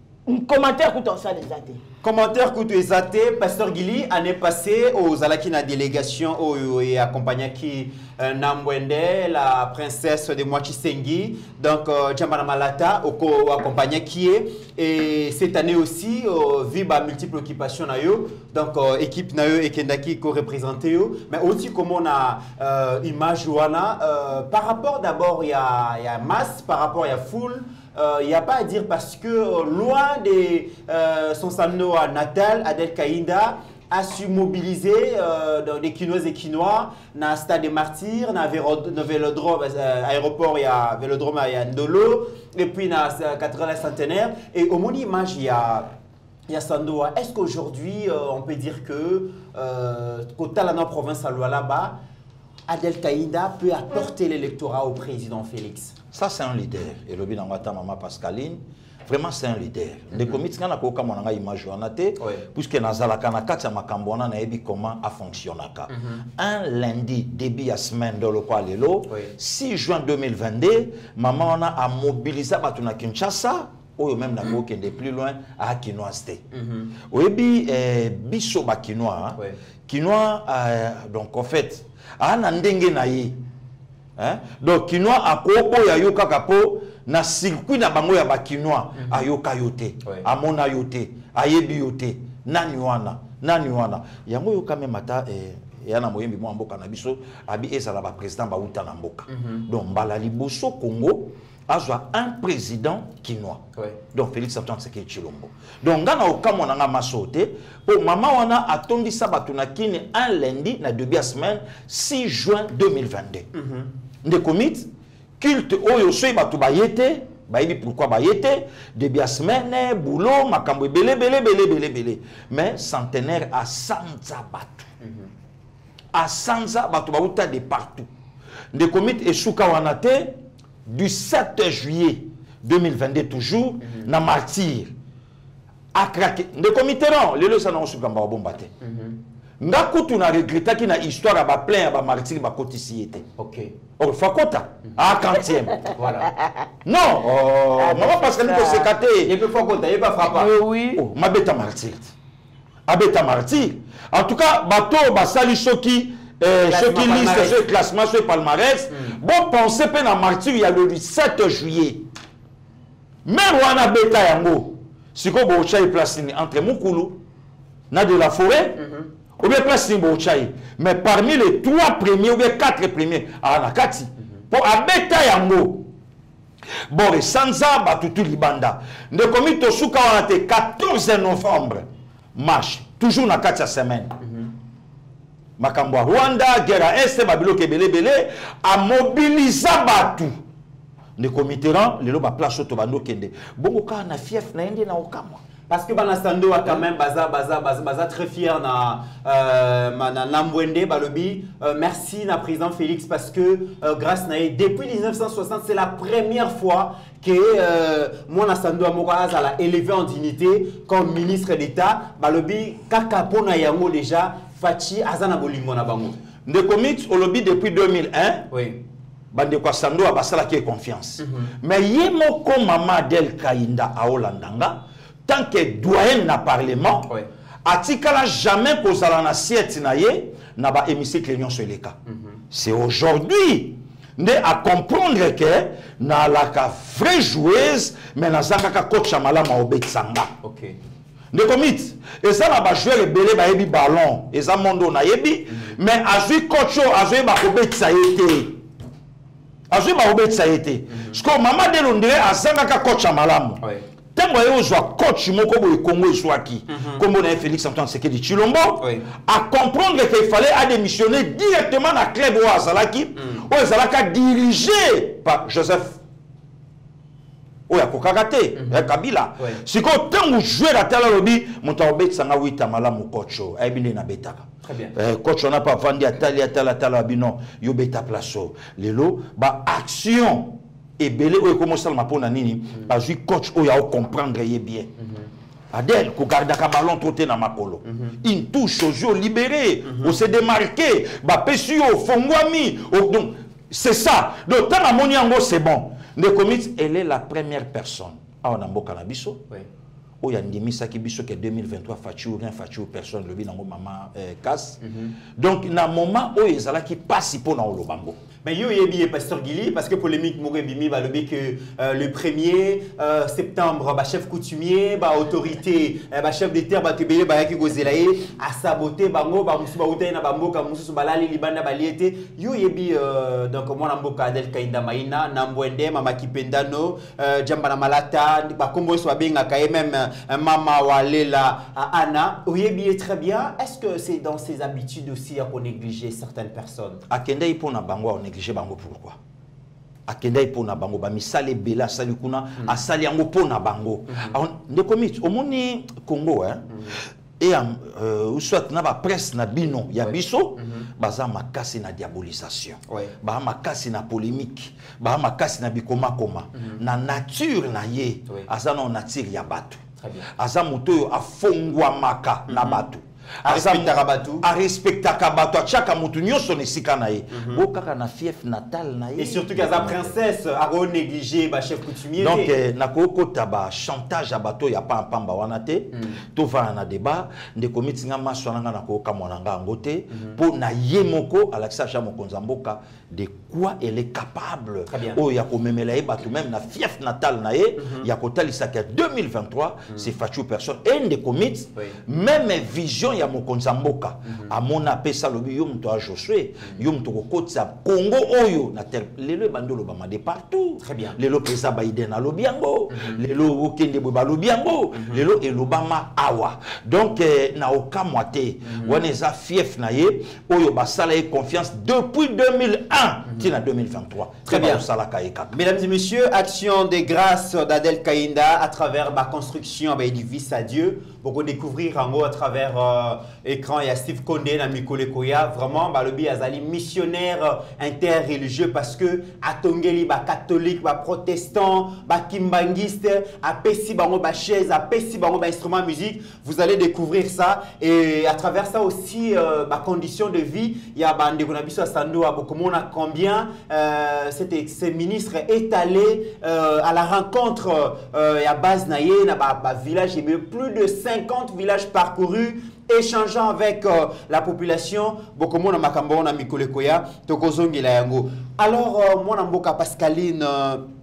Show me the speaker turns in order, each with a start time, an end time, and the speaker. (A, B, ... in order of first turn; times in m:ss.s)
0:00.3-0:01.8 A
0:02.0-0:45.9 B
0:46.5-0:52.0 B
0:52.7-0:55.9 B
0:56.1-1:16.4 C
1:02.2-1:02.4 B
1:05.9-1:06.2 B
1:16.5-1:16.9 B
1:17.1-1:23.4 C
1:24.2-1:53.5 C
1:29.0-1:29.2 B
1:39.3-1:39.6 B
1:53.6-1:53.9 B
1:54.2-2:04.9 C
2:06.1-2:08.1 C
2:08.7-2:14.9 C
2:13.8-2:14.1 B
2:15.9-2:18.7 C
2:18.8-2:19.2 B
2:19.6-2:23.3 C
2:23.4-2:23.7 B
2:24.0-2:25.9 C
2:25.9-2:26.3 B
2:26.9-2:29.4 C
2:27.8-2:28.8 A
2:29.2-2:30.5 B
2:30.2-2:31.0 A
2:30.9-2:32.1 C
2:32.9-2:42.1 C
2:36.7-2:37.6 B
2:43.3-2:47.2 C
2:47.9-2:48.8 C
2:48.8-2:49.1 B
2:49.4-2:55.9 C
2:56.9-3:04.2 C
3:05.6-3:10.4 C
3:11.2-3:15.4 C
3:15.7-3:36.2 B
3:36.5-3:38.5 C
3:38.5-3:38.8 B
3:39.3-3:47.1 C
3:41.2-3:41.5 B
3:47.6-3:52.0 C
3:52.1-3:52.4 B
3:52.5-4:00.3 C
4:00.4-4:00.8 B
4:01.3-4:08.6 C
4:09.7-4:13.6 C
4:14.2-4:26.0 C
4:16.7-4:17.0 B
4:27.7-4:44.9 C
4:28.6-4:29.6 B
4:34.6-4:34.9 B
4:45.7-4:59.4 C
4:47.9-4:48.2 B
4:49.9-4:50.1 B
5:00.2-5:04.8 C
5:04.8-5:05.1 B
5:05.4-5:08.2 C
5:08.4-5:37.0 B
5:37.1-5:39.2 C
5:40.1-5:46.7 C
5:47.4-5:59.8 C
5:50.0-5:50.9 B
6:00.0-6:00.3 B
6:00.3-6:10.1 C
6:02.5-6:02.9 B
6:03.4-6:04.5 B
6:07.3-6:07.6 B
6:09.2-6:12.6 B
6:12.2-6:55.6 C
6:15.9-6:16.2 B
6:24.9-6:25.2 B
6:27.8-6:28.0 B
6:40.8-6:41.2 B
6:42.9-6:43.2 B
6:48.7-6:49.0 B
6:54.5-6:54.9 B
6:55.5-7:40.9 B